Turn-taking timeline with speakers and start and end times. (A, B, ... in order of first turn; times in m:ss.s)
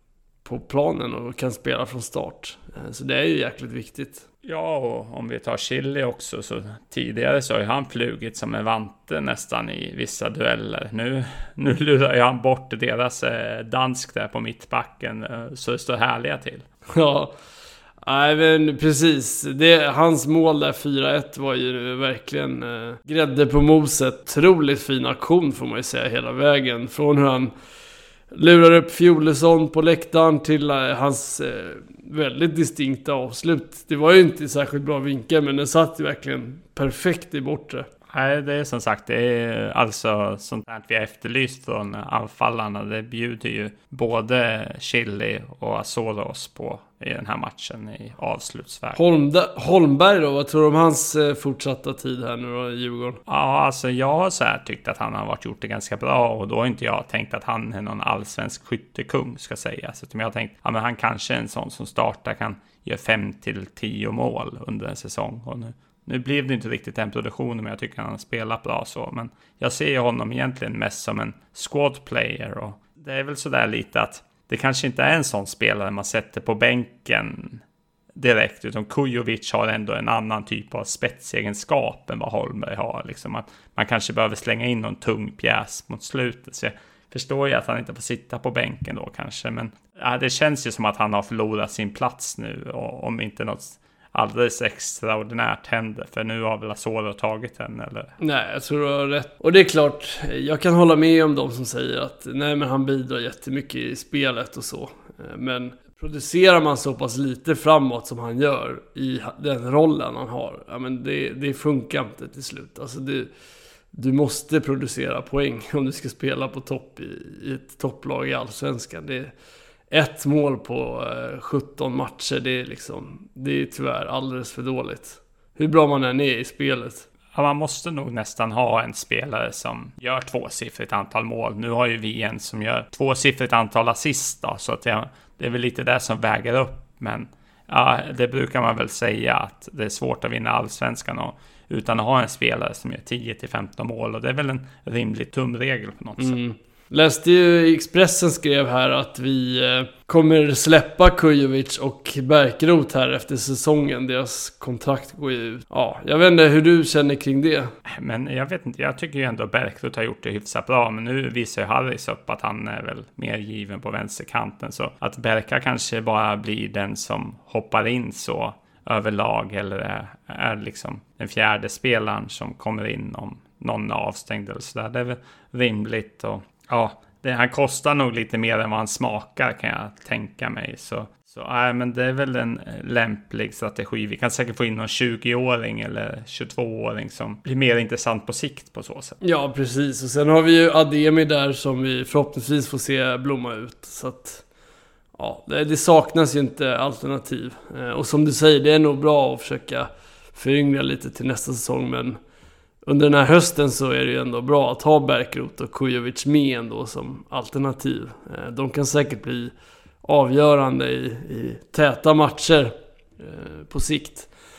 0:00.4-0:04.2 A
0:04.4-0:16.6 B
0:16.9-0:17.3 A
0:18.0-0:27.5 A
0:28.3-0:37.9 A
0:38.1-0:49.0 B
0:48.9-0:53.2 A
0:53.3-1:17.6 B
1:18.1-1:38.1 B
1:38.2-1:53.3 A
1:53.9-1:59.3 A
1:59.9-2:07.1 A
2:07.3-2:26.4 B
2:26.2-2:37.7 A
2:37.9-3:09.2 B
3:09.2-3:14.4 A
3:15.2-3:22.2 A
3:22.8-3:29.5 A
3:30.0-3:34.3 A